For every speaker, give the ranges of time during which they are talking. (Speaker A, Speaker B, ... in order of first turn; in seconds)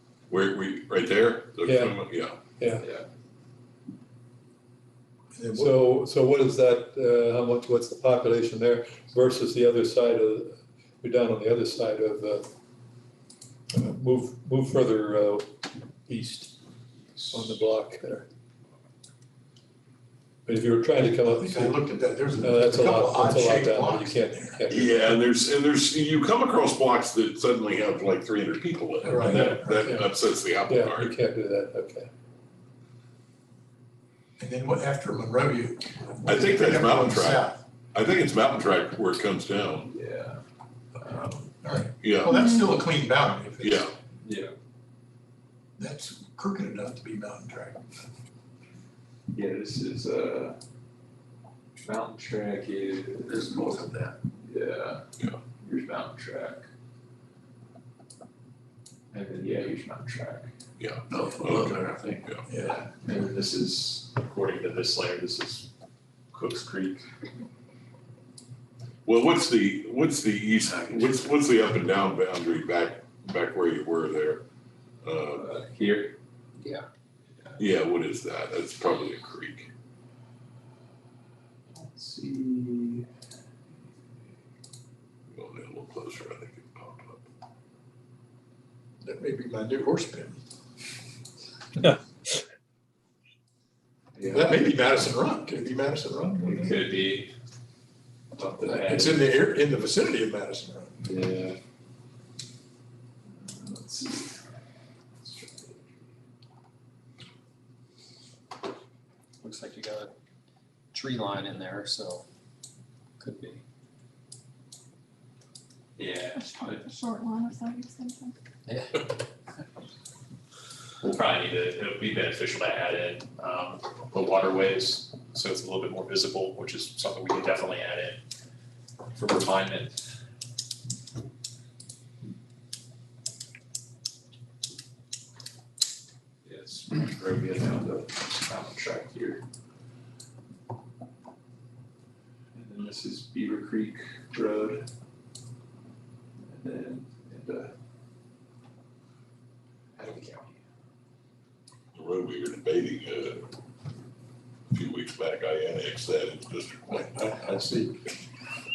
Speaker A: 0.3-2.4, 24.7-31.1, 36.2-39.9, 42.0-42.4, 43.6-43.9, 60.8-62.4, 69.0-74.4, 75.0-75.5, 77.6-79.7, 85.3-87.2, 151.9-153.5, 154.7-157.1
Speaker B: 1.6-2.0, 2.6-2.9, 5.5-12.5, 13.7-15.4, 16.1-16.5, 17.3-18.2, 20.4-21.8, 22.4-25.1, 29.2-30.1, 30.6-32.1
Speaker C: 2.8-3.0, 39.9-40.4, 41.0-41.5, 44.2-44.5, 49.3-50.6, 51.8-53.9, 54.4-55.0, 55.6-56.6, 59.1-60.5, 62.5-65.7, 66.3-67.0, 75.3-76.2, 81.7-83.1, 94.1-94.7, 96.4-97.3, 98.3-99.2, 101.0-101.6, 103.4-104.4, 105.2-106.0, 116.0-116.9, 121.0-128.2, 129.1-130.1, 136.4-139.4, 142.5-144.9, 146.4-147.7, 150.0-150.5
Speaker D: 5.3-5.8, 21.3-24.7, 29.0-29.8, 34.4-37.6, 41.4-43.9, 45.8-47.9, 62.5-62.8, 89.0-90.4, 94.2-96.8, 98.6-101.1, 156.9-158.0
Speaker E: 42.4-42.7, 116.3-118.3
Speaker F: 53.3-54.1, 61.1-62.2
Speaker G: 76.6-76.8, 109.4-110.1, 110.9-112.2, 113.2-113.6, 118.7-119.0